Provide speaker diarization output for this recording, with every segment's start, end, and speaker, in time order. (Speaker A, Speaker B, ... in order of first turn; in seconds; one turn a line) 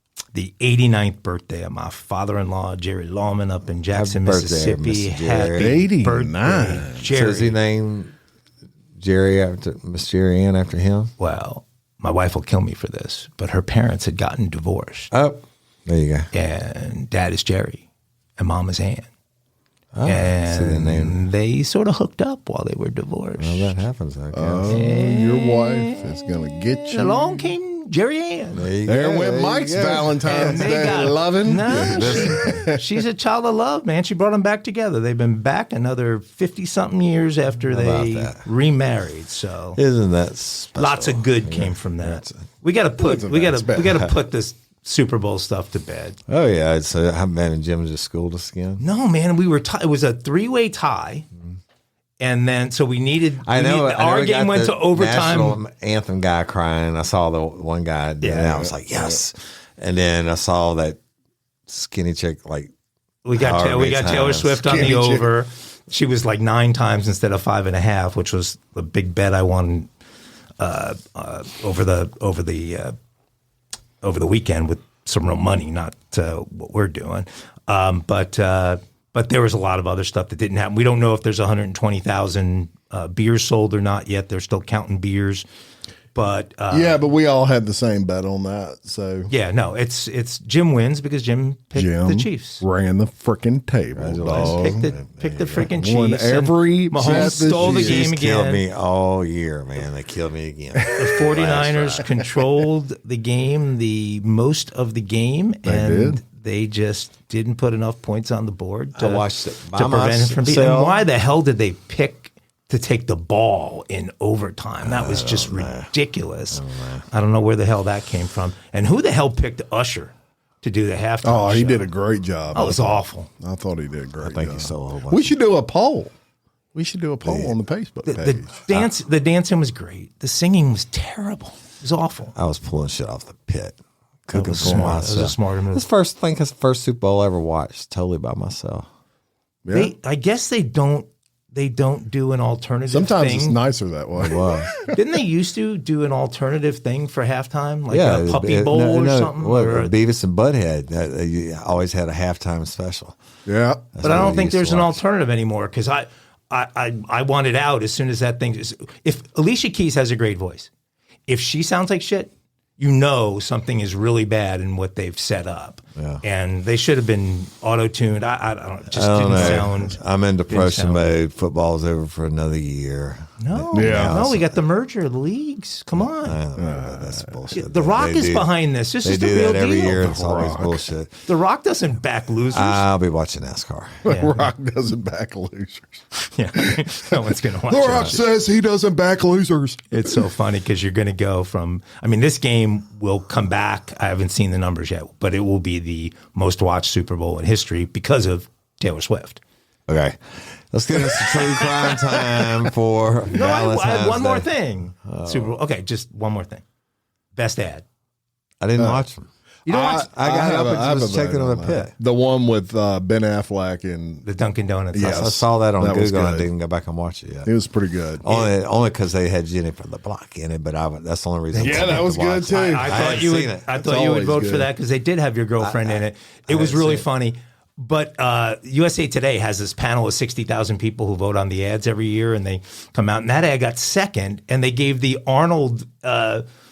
Speaker A: 0.3-7.6
Speaker B: 3.9-5.9
Speaker C: 5.5-7.0
Speaker B: 7.0-8.1
Speaker B: 9.0-11.1
Speaker A: 11.2-15.1
Speaker B: 15.1-16.3
Speaker A: 16.3-17.8
Speaker A: 18.4-19.1
Speaker B: 19.9-21.2
Speaker A: 20.1-23.8
Speaker B: 23.4-24.8
Speaker C: 24.3-27.5
Speaker A: 24.7-28.7
Speaker B: 28.5-31.0
Speaker C: 28.9-32.8
Speaker A: 30.2-39.8
Speaker B: 31.7-32.6
Speaker B: 37.7-38.5
Speaker B: 39.8-42.4
Speaker A: 40.8-46.2
Speaker C: 43.0-44.1
Speaker B: 46.3-48.8
Speaker A: 48.8-51.3
Speaker A: 52.2-55.6
Speaker B: 53.4-61.0
Speaker A: 58.2-58.7
Speaker C: 58.6-59.2
Speaker B: 61.7-62.7
Speaker A: 63.2-69.9
Speaker B: 63.3-64.7
Speaker C: 64.6-65.3
Speaker A: 70.6-72.9
Speaker A: 74.0-85.5
Speaker A: 86.2-87.0
Speaker C: 86.7-89.3
Speaker A: 89.3-92.6
Speaker C: 91.7-94.9
Speaker B: 94.0-95.7
Speaker A: 94.3-98.6
Speaker C: 95.6-98.1
Speaker B: 97.0-102.1
Speaker C: 100.8-101.1
Speaker A: 101.0-121.9
Speaker C: 105.6-106.2
Speaker B: 109.0-111.0
Speaker B: 114.8-115.9
Speaker B: 116.5-117.1
Speaker C: 121.2-126.1
Speaker A: 122.5-123.3
Speaker B: 124.2-125.3
Speaker C: 126.7-128.8
Speaker B: 127.2-127.5
Speaker A: 128.1-132.3
Speaker B: 132.3-138.9
Speaker A: 134.3-135.9
Speaker C: 134.7-134.9
Speaker C: 139.7-139.9
Speaker A: 139.7-143.6
Speaker C: 142.9-144.9
Speaker B: 144.2-144.7
Speaker A: 144.9-149.9
Speaker B: 147.9-153.2
Speaker C: 153.5-153.9
Speaker B: 153.9-155.0
Speaker A: 154.0-160.7
Speaker A: 161.3-170.0
Speaker B: 166.0-166.2
Speaker B: 168.9-174.6
Speaker C: 169.3-169.8
Speaker A: 170.5-171.2
Speaker A: 173.4-176.4
Speaker C: 173.7-174.2
Speaker B: 175.9-181.3
Speaker C: 176.6-177.3
Speaker A: 177.5-180.2
Speaker C: 179.9-180.9
Speaker A: 181.3-182.8
Speaker B: 182.5-184.0
Speaker C: 184.0-190.3
Speaker A: 184.1-184.5
Speaker A: 186.3-188.3
Speaker A: 189.9-199.4
Speaker B: 199.9-204.5
Speaker A: 201.0-202.5
Speaker A: 203.3-206.6
Speaker B: 205.0-205.6
Speaker A: 207.3-207.8
Speaker B: 208.6-209.3
Speaker C: 208.8-209.0
Speaker A: 209.7-210.1
Speaker C: 209.7-214.3
Speaker B: 210.1-211.9
Speaker A: 214.2-215.2
Speaker C: 214.9-216.5
Speaker B: 215.0-217.5
Speaker C: 217.4-218.5
Speaker B: 218.2-223.7
Speaker C: 221.5-224.7
Speaker A: 221.6-236.4
Speaker B: 225.6-227.1